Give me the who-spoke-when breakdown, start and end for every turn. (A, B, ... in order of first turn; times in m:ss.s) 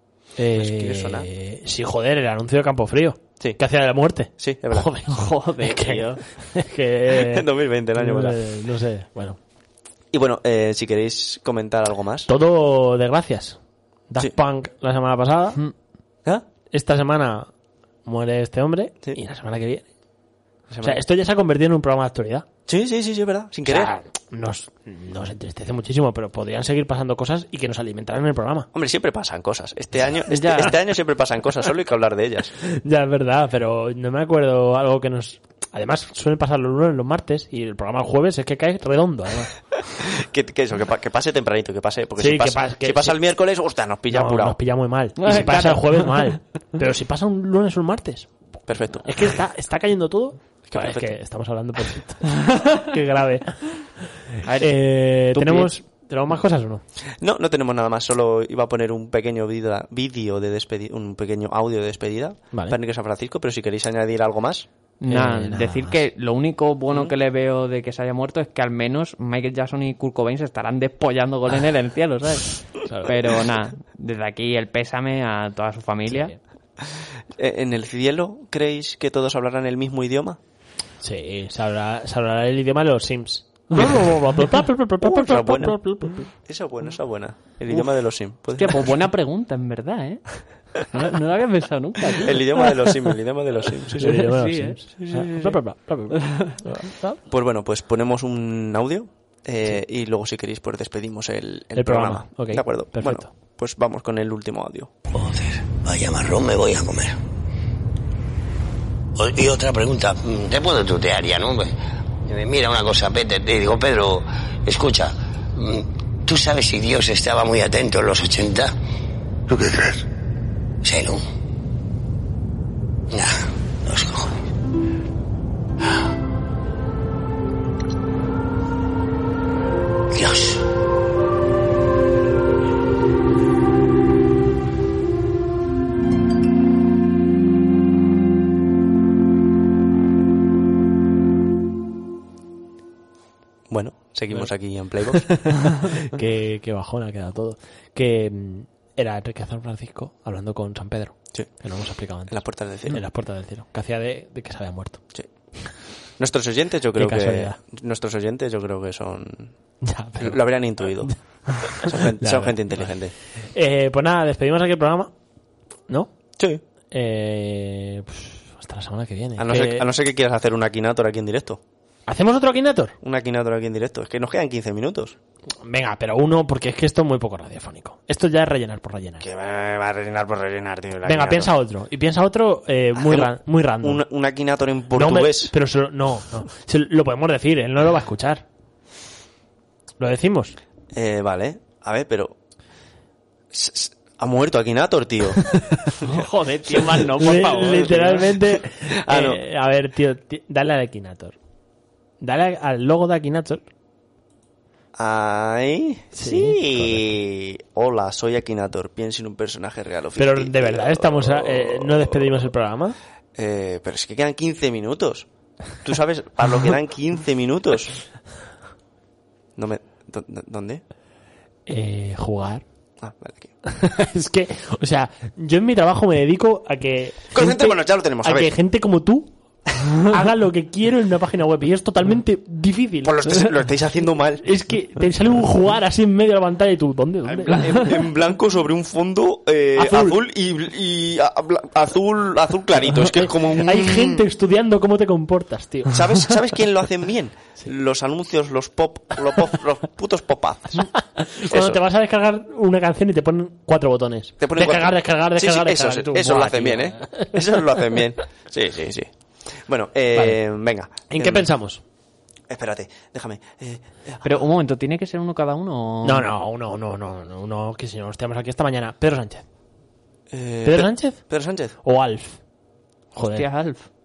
0:00.4-0:07.4 A
0:00.5-0:01.3 B
0:04.4-0:04.9 B
0:05.1-0:06.2 C
0:07.1-0:08.4 B
0:08.0-0:09.4 A
0:10.1-0:12.3 B
0:12.3-0:15.6 A
0:16.7-0:17.5 A
0:18.0-0:19.8 A
0:20.7-0:21.0 B
0:20.8-0:22.4 A
0:22.7-0:23.9 B
0:23.6-0:28.7 A
0:28.7-0:32.5 B
0:30.3-0:30.7 C
0:32.7-0:39.5 A
0:40.0-0:44.6 B
0:42.2-0:43.2 A
0:44.1-0:48.3 A
0:45.2-0:46.4 C
0:48.7-0:49.1 B
0:49.0-0:53.7 A
0:50.7-0:51.1 B
0:54.4-0:55.7 C
0:54.6-0:56.8 A
0:57.2-1:04.6 B
1:02.5-1:02.8 A
1:05.0-1:16.3 C
1:05.1-1:06.0 A
1:12.8-1:13.1 A
1:16.1-1:16.4 A
1:17.3-1:20.4 B
1:21.0-1:26.3 A
1:25.0-1:25.8 B
1:26.4-1:29.0 B
1:28.5-1:33.0 C
1:32.2-1:34.3 B
1:34.0-1:37.2 A
1:34.0-1:35.5 C
1:36.1-1:36.6 C
1:37.3-1:44.9 B
1:41.7-1:43.3 A
1:45.1-1:47.1 D
1:49.2-1:51.7 D
1:52.2-1:58.7 D
1:59.5-2:00.0 D
2:00.8-2:01.2 D
2:03.1-2:04.4 D
2:10.1-2:10.6 D
2:23.7-2:25.5 B
2:25.1-2:35.0 A
2:32.3-2:33.0 B
2:36.2-2:39.5 B
2:37.0-2:37.6 A
2:39.8-2:40.5 A
2:40.2-2:43.1 B
2:41.0-2:43.0 A
2:43.5-2:45.1 A
2:46.9-2:49.8 A
2:49.4-2:51.6 B
2:52.1-2:52.9 A
2:53.0-2:55.2 B
2:55.6-2:59.2 A
2:59.2-3:01.5 B
3:01.0-3:04.0 A
3:02.9-3:05.5 B
3:04.9-3:08.4 A
3:10.0-3:10.6 A
3:10.9-3:12.4 B
3:13.5-3:15.4 B
3:15.5-3:15.8 A
3:16.0-3:18.0 B
3:16.0-3:18.3 C
3:17.2-3:21.4 A
3:18.9-3:19.4 B
3:22.2-3:23.6 A
3:25.0-3:32.5 B
3:26.1-3:27.0 A
3:30.2-3:33.0 A
3:33.3-3:38.0 B
3:39.6-3:40.8 B
3:41.7-3:42.6 A
3:43.0-3:43.5 B
3:43.6-3:49.3 A
3:47.3-3:48.5 B
3:49.9-3:53.2 A
3:53.0-3:54.4 B
3:54.4-3:57.8 A
3:57.2-4:04.3 B
3:59.8-4:00.2 A
4:03.4-4:06.0 A
4:05.9-4:11.8 B
4:10.8-4:17.4 A
4:14.4-4:21.5 B
4:21.1-4:21.8 A
4:22.5-4:24.3 B
4:24.2-4:26.2 C
4:26.0-4:29.4 A
4:30.3-4:31.7 B
4:30.6-4:31.2 A
4:31.8-4:32.4 A
4:33.2-4:33.4 A
4:33.2-4:33.9 C